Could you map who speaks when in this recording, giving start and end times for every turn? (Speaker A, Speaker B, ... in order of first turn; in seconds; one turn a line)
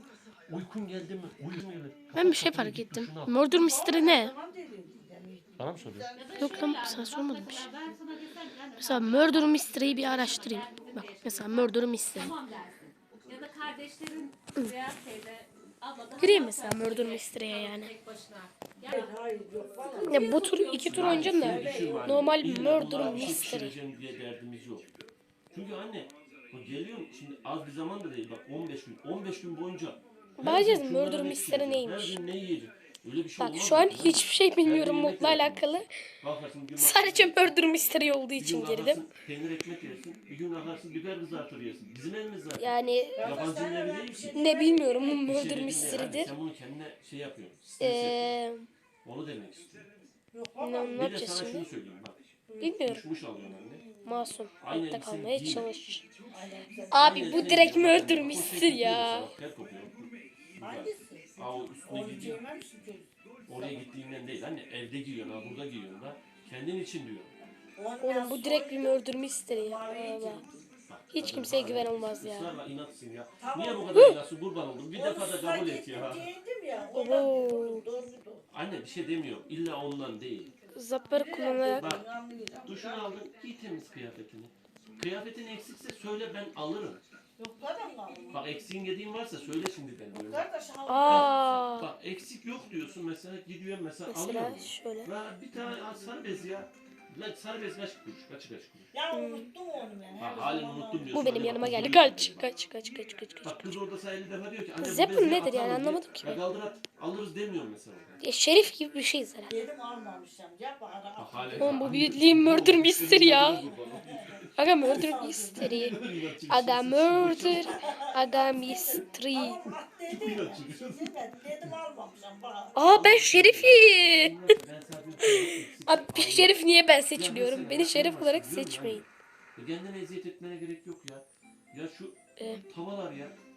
Speaker A: 0.5-3.4
Speaker B: 2.1-4.3
Speaker C: 3.5-6.8
Speaker A: 5.6-6.1
Speaker D: 6.1-21.9
Speaker B: 6.4-7.7
Speaker B: 8.8-12.3
Speaker B: 16.2-17.9
Speaker C: 18.9-20.4
Speaker B: 20.1-23.8
Speaker A: 20.9-24.9
Speaker C: 21.4-22.1
Speaker C: 22.9-23.4
Speaker A: 25.5-37.6
Speaker B: 30.4-32.2
Speaker B: 33.4-35.9
Speaker B: 36.8-39.0
Speaker A: 38.4-44.6
Speaker B: 42.6-43.4
Speaker C: 43.2-46.0
Speaker B: 44.3-46.3
Speaker A: 45.2-48.4
Speaker B: 47.8-48.7
Speaker A: 49.0-49.9
Speaker C: 50.3-51.1
Speaker B: 50.6-51.7
Speaker A: 50.9-52.2
Speaker C: 52.5-52.8
Speaker B: 52.6-53.0
Speaker A: 52.8-53.9
Speaker C: 53.5-54.1
Speaker B: 54.0-56.0
Speaker A: 54.6-55.7
Speaker C: 56.3-57.8
Speaker B: 56.9-59.3
Speaker A: 56.9-62.5
Speaker C: 60.6-63.8
Speaker A: 63.5-67.3
Speaker C: 67.8-70.7
Speaker B: 68.0-70.4
Speaker A: 70.9-76.3
Speaker B: 71.1-72.5
Speaker C: 73.4-74.1
Speaker B: 73.9-74.2
Speaker C: 74.9-78.5
Speaker B: 76.8-77.8
Speaker A: 78.5-80.5
Speaker B: 80.7-81.9
Speaker C: 81.1-83.1
Speaker A: 81.7-82.1
Speaker A: 82.7-87.0
Speaker C: 87.4-88.5
Speaker A: 88.3-90.5
Speaker C: 90.2-91.6
Speaker B: 90.9-91.9
Speaker A: 91.0-98.9
Speaker B: 94.1-95.1
Speaker C: 98.9-101.5
Speaker B: 99.1-99.5
Speaker A: 100.2-102.5
Speaker B: 101.1-103.8
Speaker A: 103.4-108.2
Speaker B: 104.8-106.4
Speaker B: 108.2-109.5
Speaker C: 109.5-112.0
Speaker A: 111.2-114.5
Speaker B: 111.6-113.6
Speaker C: 113.1-115.9
Speaker B: 114.6-116.0
Speaker A: 115.6-117.8
Speaker B: 116.5-119.6
Speaker C: 117.4-122.9
Speaker A: 120.1-121.8
Speaker B: 122.8-124.5
Speaker A: 122.8-126.6
Speaker B: 125.2-129.0
Speaker A: 127.2-133.4